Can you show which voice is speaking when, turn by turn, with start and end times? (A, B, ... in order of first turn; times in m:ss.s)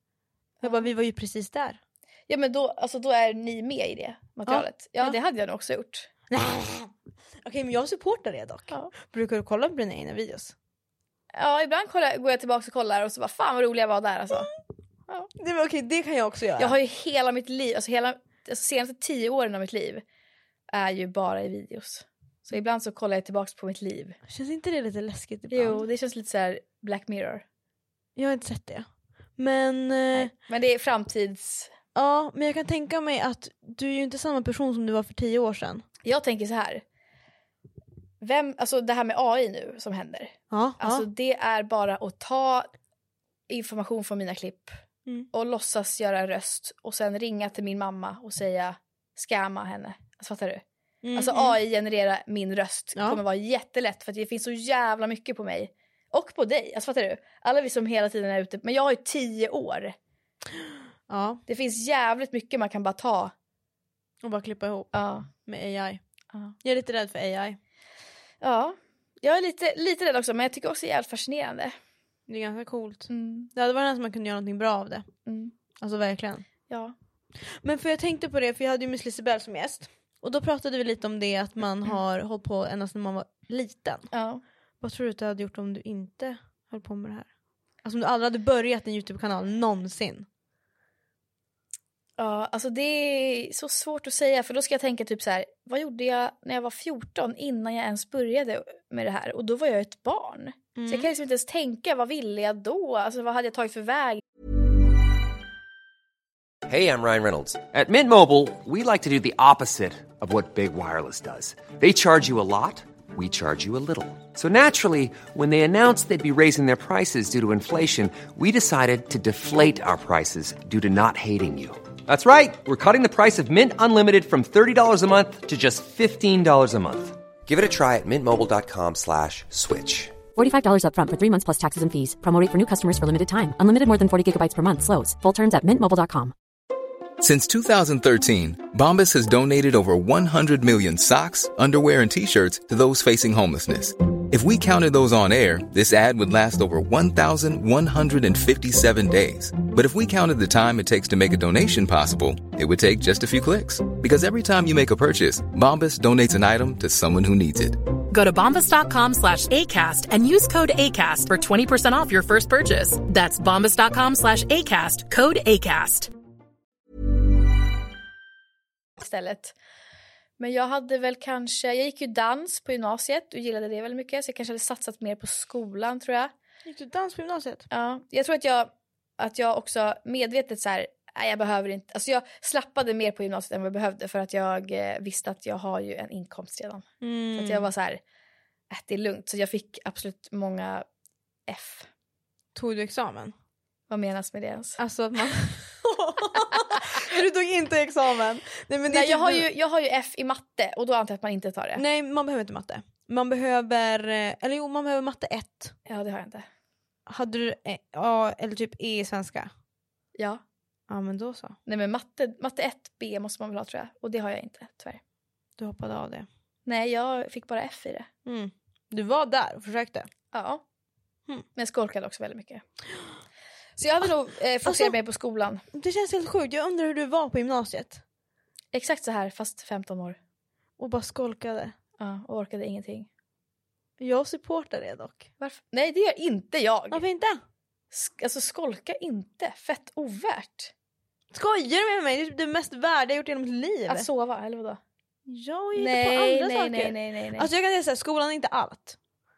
0:00.6-0:00.9 A
0:00.6-0:01.8 B
0:02.3-0:06.1 A
0:04.5-0:05.2 B
0:06.3-0:10.5 B
0:11.3-0:14.5 A
0:15.4-0:16.8 B
0:16.6-0:20.0 A
0:20.7-0:24.2 A
0:24.3-0:25.9 B
0:25.5-0:27.4 A
0:28.2-0:30.3 B
0:30.1-0:31.7 A
0:32.0-0:35.8 B
0:36.0-0:36.8 A
0:38.2-0:42.7 A
0:40.5-0:41.1 B
0:43.5-0:44.8 A
0:45.3-0:50.6 A
0:51.0-0:51.6 B
0:51.2-1:00.0 A
0:53.0-0:53.2 B
1:00.6-1:01.4 B
1:01.5-1:03.3 A
1:04.2-1:06.0 B
1:04.9-1:05.3 A
1:06.6-1:07.6 B
1:08.4-1:11.8 A
1:12.3-1:15.1 B
1:13.1-1:13.5 A
1:15.3-1:15.5 A
1:15.8-1:16.4 B
1:16.7-1:17.0 A
1:17.4-1:24.1 B
1:24.1-1:24.4 A
1:24.8-1:27.3 B
1:27.8-1:30.3 B
1:32.2-1:44.2 A
1:40.8-1:41.1 B
1:46.7-2:10.2 C
2:10.4-2:16.3 D
2:17.2-2:37.8 E
2:38.1-2:46.1 F
2:49.0-2:49.5 A
2:50.4-2:56.3 A
2:56.6-2:57.7 B
2:57.7-3:08.0 A
3:07.0-3:07.7 B
3:08.7-3:10.9 A
3:11.5-3:11.9 A
3:12.6-3:13.3 B
3:13.9-3:14.8 A
3:14.8-3:19.5 B
3:16.5-3:16.9 A
3:18.9-3:21.8 A
3:21.8-3:25.7 B
3:25.9-3:26.5 A
3:27.1-3:29.5 B
3:30.2-3:30.4 A
3:30.9-3:31.6 B
3:31.7-3:35.0 A
3:35.6-3:36.3 B
3:36.7-3:38.1 A
3:38.2-3:40.1 B
3:40.3-3:40.6 A
3:41.6-3:42.6 A
3:43.8-3:45.6 A
3:44.6-3:45.0 B
3:45.7-3:48.0 B
3:48.7-3:50.2 A
3:50.8-3:51.7 B
3:52.0-3:53.1 A
3:54.0-3:55.3 B
3:55.4-3:57.0 A
3:56.9-3:57.4 B
3:57.9-4:00.7 A
4:01.3-4:04.1 B
4:03.9-4:04.8 A
4:05.3-4:09.0 B
4:05.8-4:07.5 A